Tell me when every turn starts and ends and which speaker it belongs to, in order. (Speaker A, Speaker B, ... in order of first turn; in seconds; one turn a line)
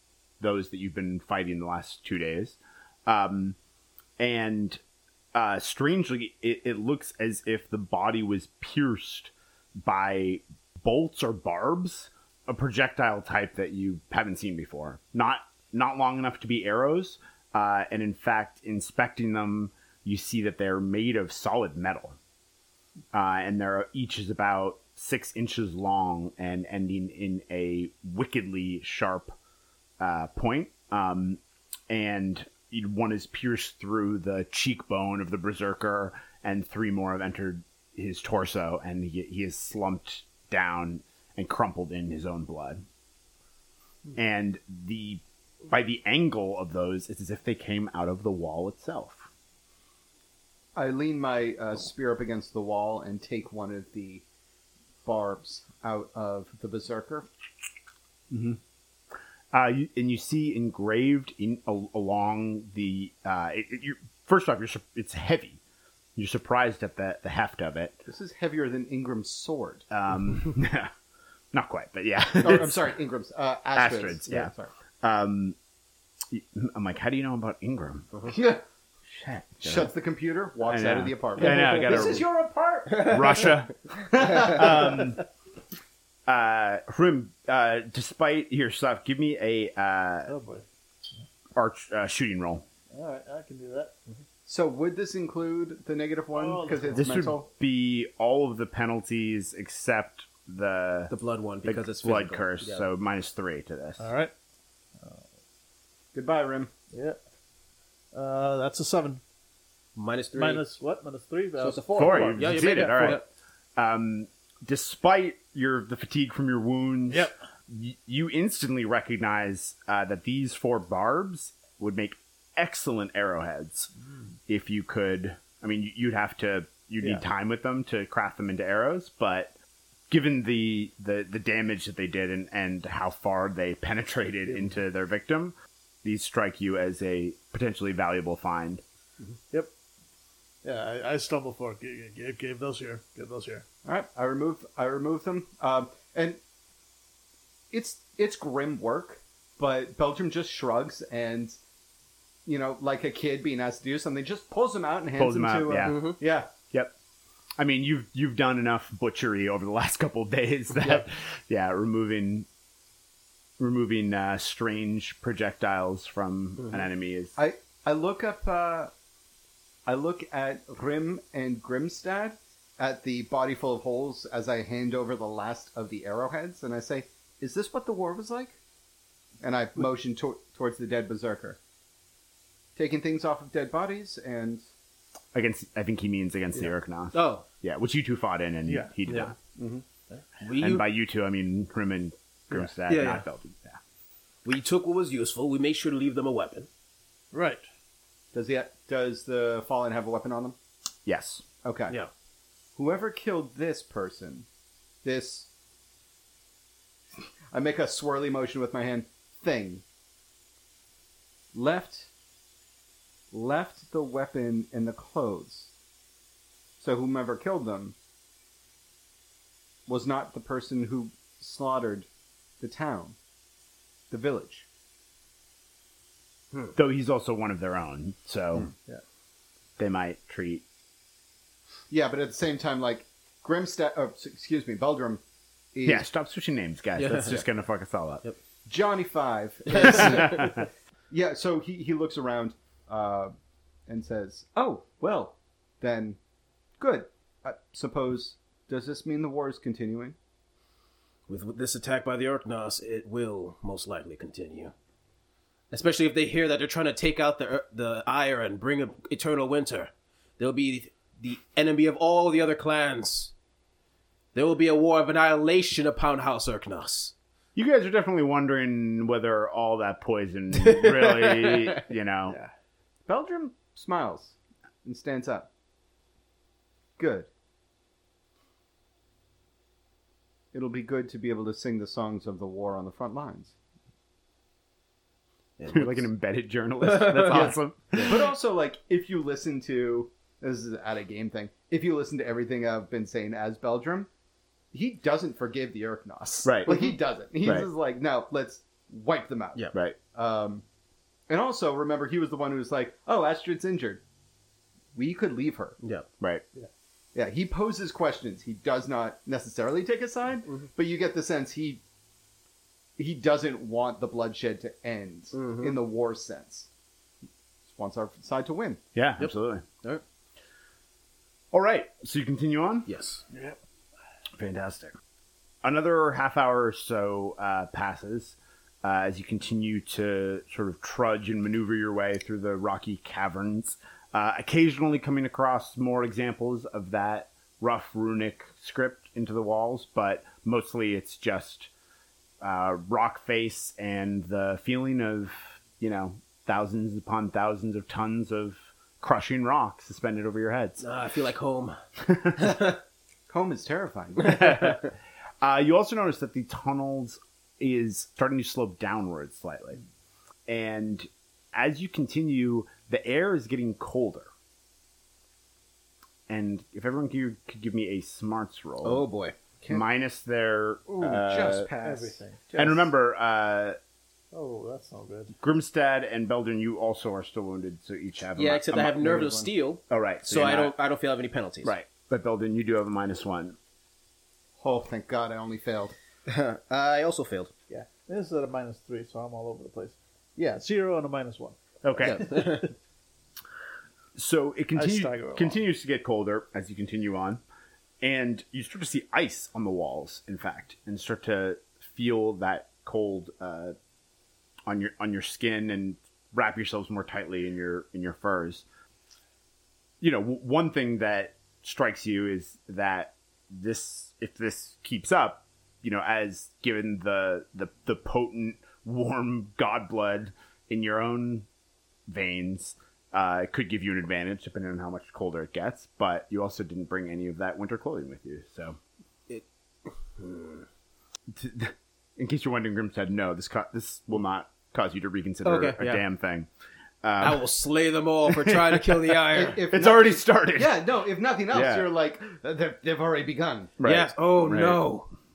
Speaker A: 0.4-3.6
Speaker A: 4.2-4.8
Speaker A: 5.3-9.3
Speaker A: 9.8-22.2
Speaker A: 23.1-29.4
Speaker A: 30.0-42.8
Speaker A: 44.1-49.3
Speaker B: 50.8-54.2
Speaker B: 55.0-57.3
Speaker B: 58.3-58.6
Speaker A: 59.5-65.6
Speaker A: 66.2-68.1
Speaker B: 68.1-69.8
Speaker A: 69.9-70.9
Speaker A: 71.5-72.9
Speaker B: 72.4-74.7
Speaker A: 73.8-75.6
Speaker A: 76.3-78.4
Speaker B: 78.3-78.6
Speaker A: 79.1-79.9
Speaker B: 79.6-82.3
Speaker A: 80.6-82.3
Speaker C: 82.9-83.5
Speaker A: 83.0-85.2
Speaker B: 84.0-84.9
Speaker A: 86.3-90.3
Speaker D: 90.3-90.6
Speaker A: 91.5-92.7
Speaker D: 92.9-94.1
Speaker B: 94.5-97.5
Speaker D: 96.3-97.1
Speaker A: 96.9-101.1
Speaker C: 101.1-102.9
Speaker A: 101.7-104.1
Speaker D: 104.0-104.3
Speaker B: 106.1-106.7
Speaker D: 106.9-107.2
Speaker D: 108.1-109.2
Speaker C: 110.0-110.6
Speaker D: 110.3-113.1
Speaker C: 111.6-113.3
Speaker A: 111.9-123.9
Speaker A: 124.5-129.5
Speaker A: 130.1-138.8
Speaker D: 140.6-143.6
Speaker B: 143.8-146.4
Speaker B: 147.7-151.6
Speaker B: 152.5-156.5
Speaker A: 155.2-156.1
Speaker C: 155.8-156.2
Speaker A: 157.6-162.5
Speaker A: 163.6-167.4
Speaker B: 167.4-168.9
Speaker B: 169.9-178.6
Speaker B: 179.4-181.6
Speaker B: 182.8-184.7
Speaker A: 185.3-189.4
Speaker C: 187.1-187.5
Speaker D: 188.7-188.9
Speaker C: 189.1-189.3
Speaker B: 189.6-189.8
Speaker C: 190.4-190.9
Speaker A: 190.6-193.8
Speaker C: 192.8-193.2
Speaker C: 194.4-196.7
Speaker D: 197.3-197.6
Speaker B: 198.3-200.6
Speaker A: 201.1-201.4
Speaker B: 201.6-202.0
Speaker B: 202.8-204.5
Speaker B: 205.0-205.5
Speaker B: 207.5-209.8
Speaker B: 211.5-212.1
Speaker B: 213.3-215.7
Speaker B: 216.8-217.9
Speaker B: 219.9-222.1
Speaker B: 222.6-223.2
Speaker B: 224.1-224.7
Speaker A: 226.8-228.7
Speaker A: 229.8-230.6
Speaker B: 231.9-235.2
Speaker B: 235.7-236.1
Speaker A: 235.8-238.2
Speaker C: 237.0-237.4
Speaker B: 238.7-243.3
Speaker A: 239.7-240.6
Speaker B: 243.9-246.2
Speaker B: 246.8-250.2
Speaker C: 251.3-254.7
Speaker C: 255.7-263.3
Speaker C: 264.3-267.1
Speaker A: 267.6-272.4
Speaker C: 270.6-271.8
Speaker B: 273.1-275.5
Speaker B: 277.0-277.3
Speaker B: 280.5-283.6
Speaker C: 285.6-286.1
Speaker A: 285.7-288.3
Speaker C: 286.8-288.1
Speaker B: 287.3-294.1
Speaker B: 294.7-300.6
Speaker A: 296.4-296.9
Speaker A: 297.4-297.7
Speaker B: 301.3-304.0
Speaker B: 304.9-305.8
Speaker C: 305.8-306.1
Speaker B: 307.1-311.8
Speaker B: 313.0-316.7
Speaker C: 315.3-315.8
Speaker B: 317.7-318.8
Speaker A: 318.9-319.6
Speaker C: 319.2-320.0
Speaker A: 321.5-322.9
Speaker C: 322.9-323.2
Speaker D: 323.3-323.6
Speaker A: 324.4-325.0
Speaker A: 325.6-341.7
Speaker A: 342.4-350.8
Speaker C: 350.8-351.8
Speaker A: 352.1-352.5
Speaker C: 352.4-352.8
Speaker B: 353.3-354.8
Speaker A: 354.2-354.9
Speaker C: 354.4-354.6
Speaker A: 355.4-359.8
Speaker A: 360.5-364.3
Speaker A: 366.3-369.1
Speaker C: 368.8-369.4
Speaker A: 369.7-371.7
Speaker B: 370.9-372.2
Speaker D: 371.8-372.9
Speaker A: 372.6-373.8
Speaker D: 374.3-375.3
Speaker A: 375.4-379.3
Speaker C: 378.4-381.8
Speaker B: 379.0-379.5
Speaker A: 379.9-380.7
Speaker A: 381.6-383.6
Speaker B: 384.6-386.0
Speaker C: 386.3-387.5
Speaker D: 387.7-391.6
Speaker A: 391.8-392.5
Speaker C: 392.0-392.7
Speaker A: 394.2-397.4
Speaker D: 394.8-395.6
Speaker A: 398.0-403.8
Speaker A: 404.7-408.7
Speaker A: 410.0-421.5
Speaker A: 422.1-428.8
Speaker C: 429.3-430.6
Speaker A: 431.3-436.5
Speaker C: 435.4-436.1
Speaker A: 437.0-437.5
Speaker C: 437.2-439.6
Speaker A: 438.3-440.9
Speaker B: 439.3-443.8
Speaker A: 441.5-441.9
Speaker A: 443.8-444.8
Speaker C: 443.8-445.1